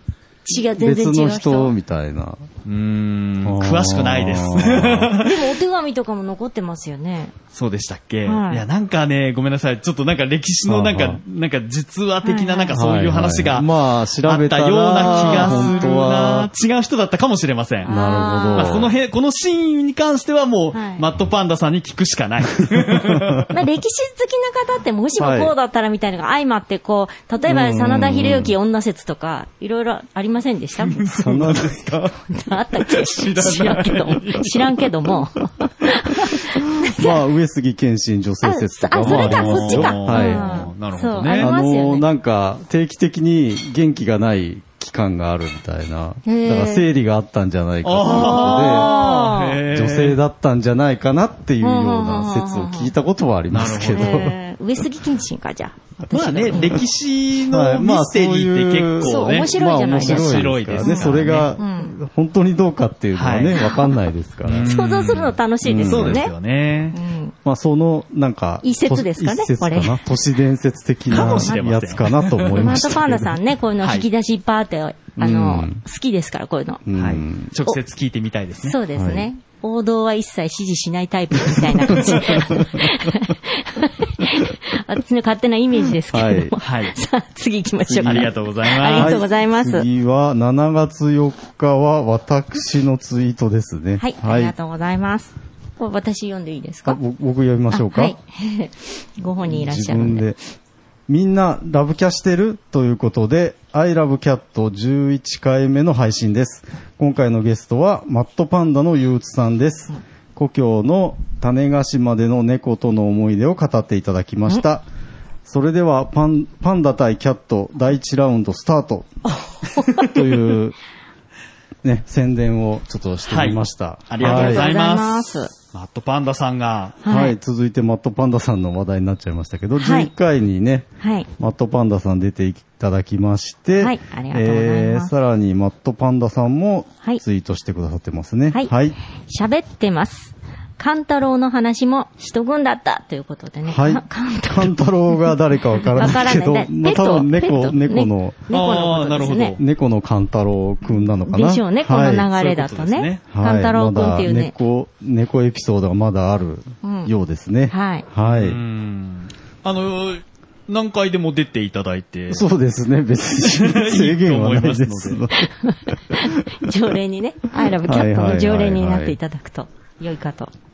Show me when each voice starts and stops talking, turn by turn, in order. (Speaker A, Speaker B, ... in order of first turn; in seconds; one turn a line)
Speaker A: 0.4-1.7
Speaker B: 0.8-2.4
Speaker C: 2.6-5.4
Speaker B: 3.4-5.1
Speaker A: 5.2-7.3
Speaker C: 7.5-13.7
Speaker A: 8.2-8.6
Speaker B: 10.7-11.2
Speaker A: 12.2-12.8
Speaker B: 12.7-16.5
Speaker C: 14.2-17.9
Speaker A: 15.0-15.9
Speaker A: 17.9-18.9
Speaker B: 17.9-18.9
Speaker C: 18.6-23.5
Speaker A: 20.7-21.0
Speaker B: 23.0-23.4
Speaker A: 23.5-31.6
Speaker B: 25.2-25.5
Speaker B: 27.4-28.5
Speaker C: 30.8-32.0
Speaker B: 31.2-32.1
Speaker A: 32.1-37.1
Speaker C: 32.8-34.8
Speaker B: 37.0-40.7
Speaker A: 38.4-42.0
Speaker C: 39.0-41.5
Speaker B: 41.3-48.9
Speaker A: 46.2-46.9
Speaker C: 47.8-50.2
Speaker A: 48.1-49.6
Speaker B: 49.7-54.4
Speaker A: 51.6-52.9
Speaker C: 53.5-54.3
Speaker A: 53.9-56.8
Speaker C: 56.1-61.5
Speaker B: 57.5-64.7
Speaker A: 59.0-61.9
Speaker C: 63.1-63.6
Speaker A: 63.6-63.9
Speaker C: 64.4-67.0
Speaker A: 64.6-66.3
Speaker B: 65.6-66.2
Speaker A: 66.9-67.3
Speaker B: 67.4-73.4
Speaker A: 68.6-70.0
Speaker C: 71.1-72.9
Speaker A: 71.1-71.6
Speaker A: 72.5-76.8
Speaker C: 73.8-74.0
Speaker B: 75.2-75.8
Speaker B: 76.8-77.5
Speaker C: 76.9-78.8
Speaker A: 78.6-89.9
Speaker B: 78.9-79.3
Speaker C: 82.0-82.4
Speaker B: 82.0-82.8
Speaker B: 86.1-86.5
Speaker C: 86.6-86.9
Speaker B: 87.8-88.3
Speaker C: 88.0-89.2
Speaker B: 88.9-94.5
Speaker A: 94.0-97.0
Speaker B: 96.9-98.2
Speaker A: 97.7-100.2
Speaker B: 99.4-100.4
Speaker B: 101.1-114.8
Speaker B: 115.5-119.1
Speaker A: 119.3-120.1
Speaker B: 120.0-120.8
Speaker B: 121.8-124.7
Speaker C: 123.3-127.0
Speaker A: 124.2-125.5
Speaker A: 127.0-127.3
Speaker B: 127.0-139.0
Speaker A: 129.8-130.1
Speaker A: 131.0-131.3
Speaker A: 133.8-135.1
Speaker A: 138.5-145.2
Speaker B: 143.7-148.4
Speaker A: 145.8-149.6
Speaker C: 148.5-149.6
Speaker B: 149.6-152.3
Speaker A: 151.0-154.5
Speaker C: 152.3-153.2
Speaker B: 153.3-158.6
Speaker A: 156.8-157.1
Speaker A: 157.7-158.0
Speaker C: 158.2-162.4
Speaker B: 162.3-166.2
Speaker C: 163.4-165.2
Speaker A: 165.5-170.5
Speaker B: 167.6-169.2